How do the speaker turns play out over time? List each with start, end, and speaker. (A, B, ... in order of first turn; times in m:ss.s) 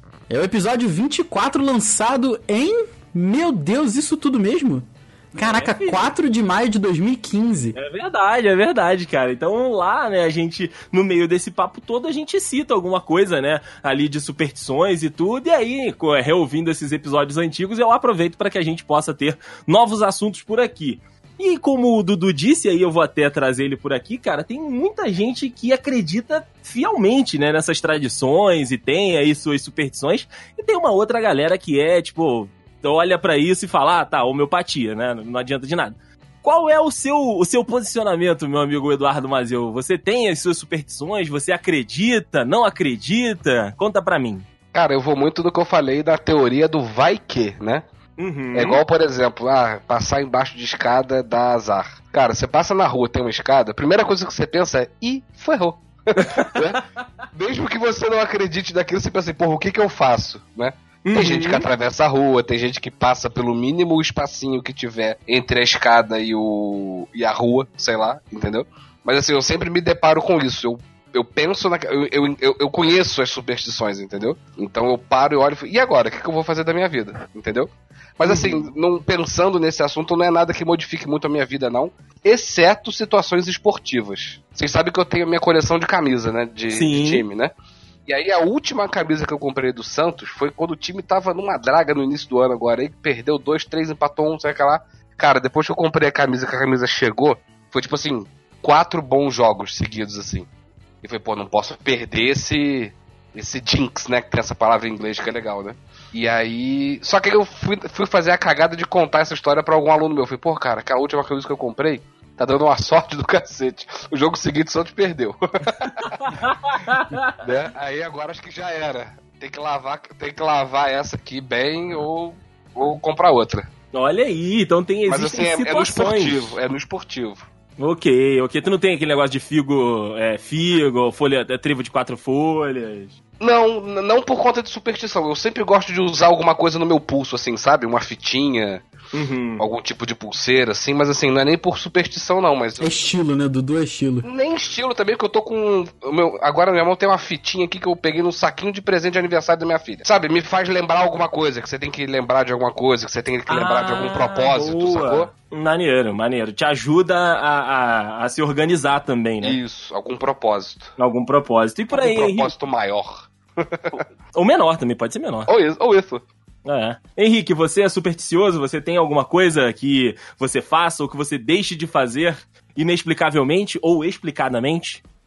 0:00.3-0:07.8 A
0:05.4-0:06.1 B
0:07.8-0:44.4 B
0:44.7-0:47.8 C
0:48.2-0:48.8 B
0:48.5-1:27.5 C
0:56.2-0:56.5 B
1:01.0-1:01.7 B
1:18.2-1:18.7 B
1:26.7-1:27.2 B
1:28.1-1:40.5 C
1:41.0-1:56.3 C
1:56.3-1:57.3 B
1:57.4-2:03.7 C
2:03.9-2:06.6 B
2:05.1-2:07.5 C
2:07.8-2:13.2 B
2:13.4-2:18.9 C
2:19.1-2:19.6 B
2:19.6-2:23.0 C
2:22.8-2:24.3 A
2:24.2-2:35.3 C
2:33.5-2:39.6 B
2:39.4-2:40.9 C
2:41.0-2:42.5 B
2:41.9-2:44.0 C
2:44.3-2:45.5 B
2:45.5-2:46.2 C
2:46.6-2:55.0 B